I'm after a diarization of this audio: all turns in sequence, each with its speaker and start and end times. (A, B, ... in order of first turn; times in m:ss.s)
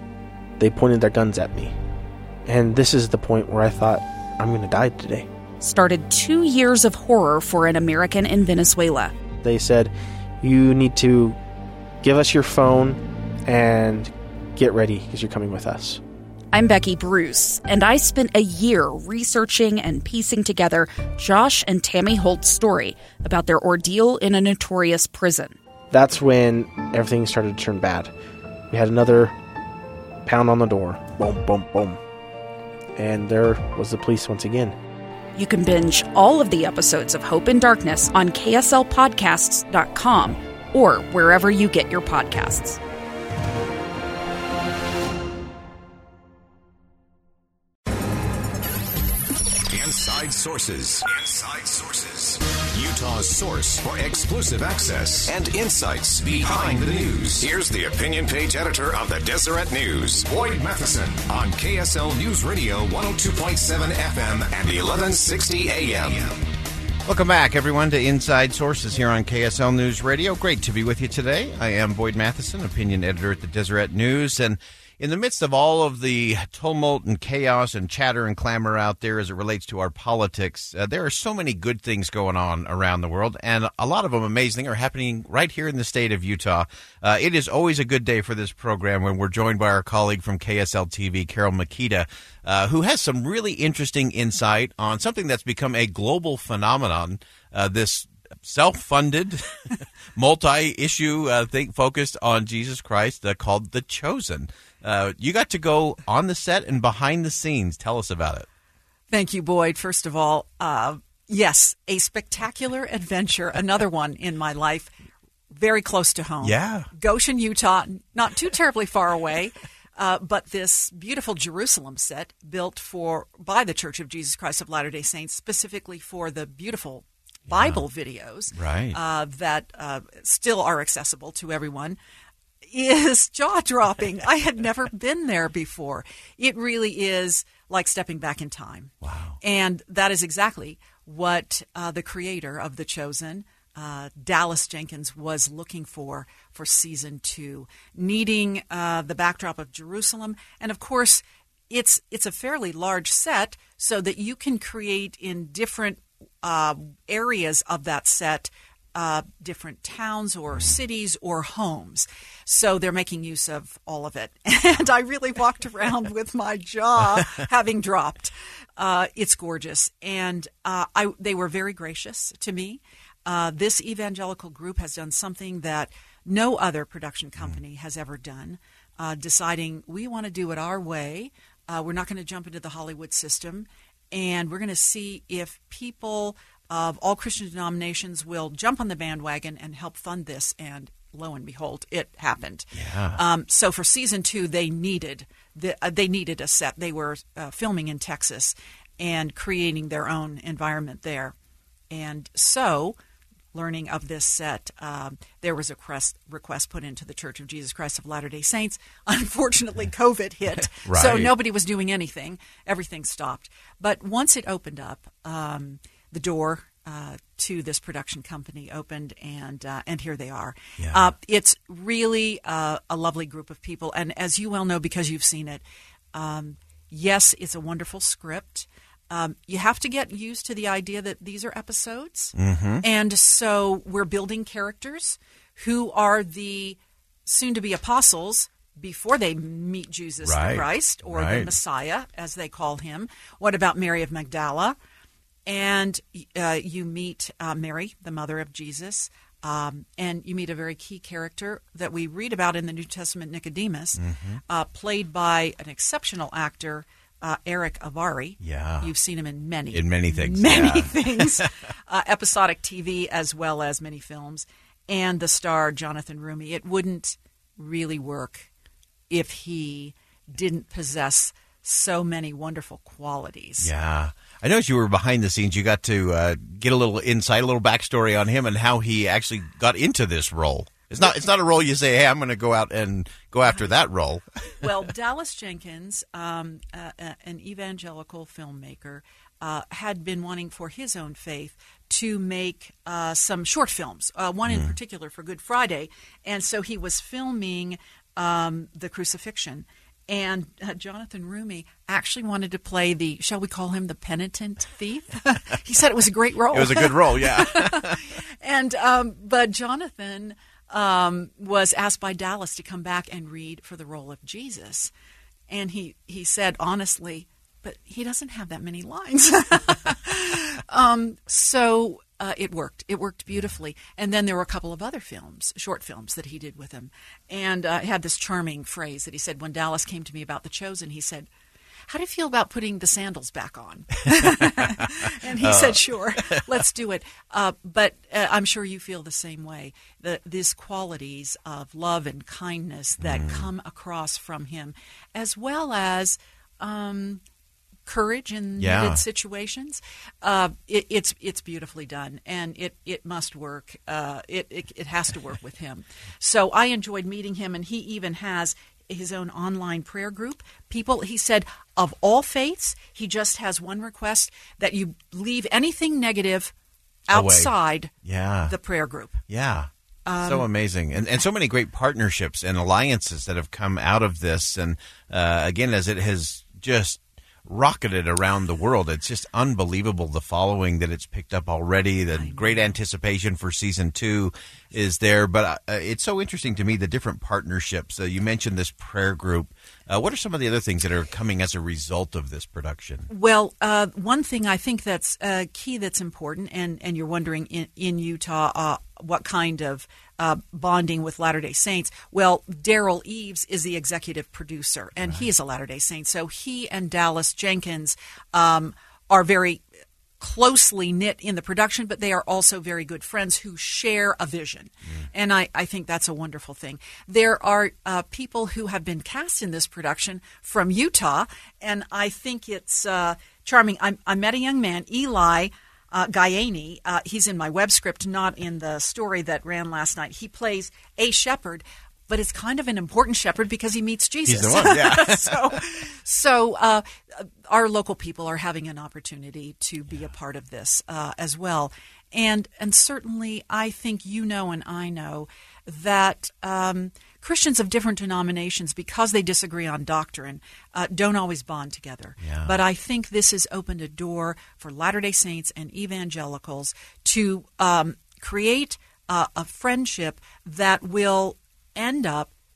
0:00.6-0:01.8 A
0:02.5-0:05.3 A
0:05.6-0:09.1 B
0:09.4-0:11.4 A
0:12.0-0:16.0 A
0:16.5-0:25.6 B
0:25.9-0:28.1 A
0:28.7-0:29.3 A
0:30.2-0:32.0 A
0:33.0-0:34.8 A
0:35.4-0:42.8 B
0:49.7-1:06.3 C
1:07.1-1:48.5 D
1:49.1-1:54.9 E
1:55.5-2:12.0 E
1:56.4-1:56.9 D
2:07.5-2:07.8 D
2:08.5-2:09.0 D
2:12.7-3:21.3 E
2:19.0-2:19.4 D
3:12.7-3:13.2 D
3:21.9-3:23.0 E
3:23.5-4:04.8 E
3:30.8-3:31.3 D
3:40.8-3:41.1 D
3:52.4-3:52.8 D
4:00.2-4:01.5 D
4:05.5-4:28.5 E
4:14.0-4:14.4 D
4:18.4-4:18.9 D
4:19.7-4:21.5 D
4:29.1-4:33.7 E
4:33.6-4:44.7 D
4:44.6-5:14.9 E
4:54.5-4:54.8 D
5:06.5-5:08.0 D
5:15.5-5:31.3 E
5:31.9-5:47.2 E
5:35.4-5:36.5 D
5:43.0-5:43.5 D
5:47.9-6:06.5 E
5:48.6-5:49.0 D
6:07.1-6:07.9 E
6:07.1-6:07.5 D
6:08.0-6:08.6 D
6:08.4-6:09.2 E
6:09.3-6:09.7 D
6:10.1-6:10.5 E
6:10.2-6:33.1 D
6:22.1-6:22.8 E
6:33.1-6:49.6 E
6:45.0-6:45.3 D
6:50.2-7:42.3 E
7:14.3-7:15.4 D
7:32.2-7:32.6 D